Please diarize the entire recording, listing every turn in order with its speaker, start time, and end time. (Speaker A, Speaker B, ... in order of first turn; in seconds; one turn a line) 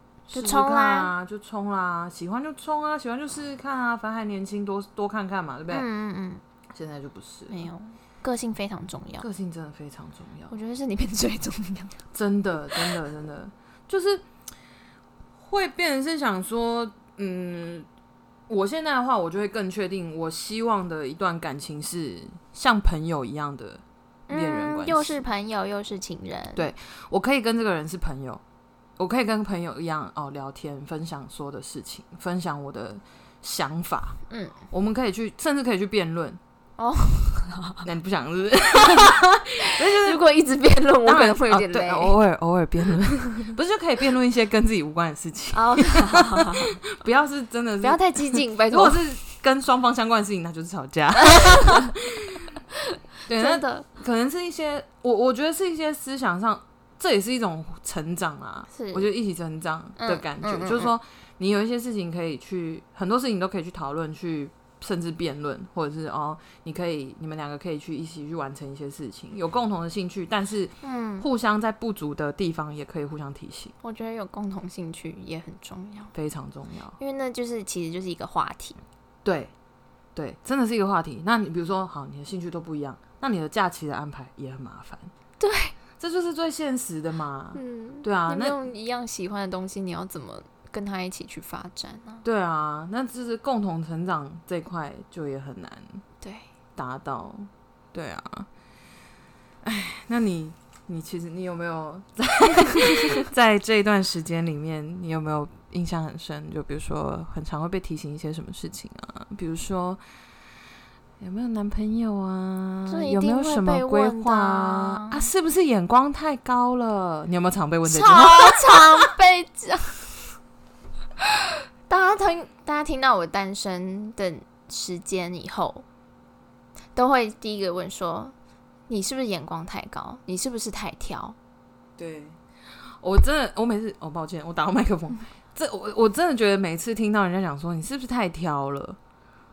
Speaker A: 0.3-5.9
Speaker B: 0.3-1.1
Speaker B: 5.7-6.4
Speaker A: 6.7-7.7
Speaker B: 7.5-9.3
Speaker A: 9.2-10.5
Speaker B: 10.5-12.0
Speaker A: 12.1-14.3
Speaker A: 15.4-17.9
Speaker A: 18.5-25.2
Speaker B: 24.3-26.6
Speaker A: 26.6-28.4
Speaker A: 29.0-34.2
Speaker B: 34.3-34.6
Speaker A: 34.7-36.4
Speaker B: 36.8-37.9
Speaker A: 37.8-40.2
Speaker B: 38.8-39.1
Speaker B: 39.6-42.1
Speaker A: 41.0-52.6
Speaker B: 45.5-46.8
Speaker B: 47.8-49.0
Speaker B: 51.3-51.9
Speaker A: 53.3-73.7
Speaker B: 53.3-53.9
Speaker B: 58.7-59.1
Speaker B: 60.0-60.9
Speaker B: 70.8-71.3
Speaker B: 73.8-76.1
Speaker A: 76.1-77.0
Speaker B: 77.0-78.8
Speaker A: 79.2-79.5
Speaker A: 80.2-85.1
Speaker B: 85.4-85.8
Speaker A: 86.0-88.6
Speaker B: 87.5-92.2
Speaker A: 92.2-96.0
Speaker B: 96.2-96.5
Speaker A: 96.8-98.5
Speaker A: 99.6-110.0
Speaker A: 111.2-119.1
Speaker B: 112.9-115.3
Speaker B: 117.9-120.3
Speaker B: 121.9-125.8
Speaker B: 127.0-128.3
Speaker B: 128.9-131.4
Speaker A: 132.0-132.4
Speaker A: 133.0-139.0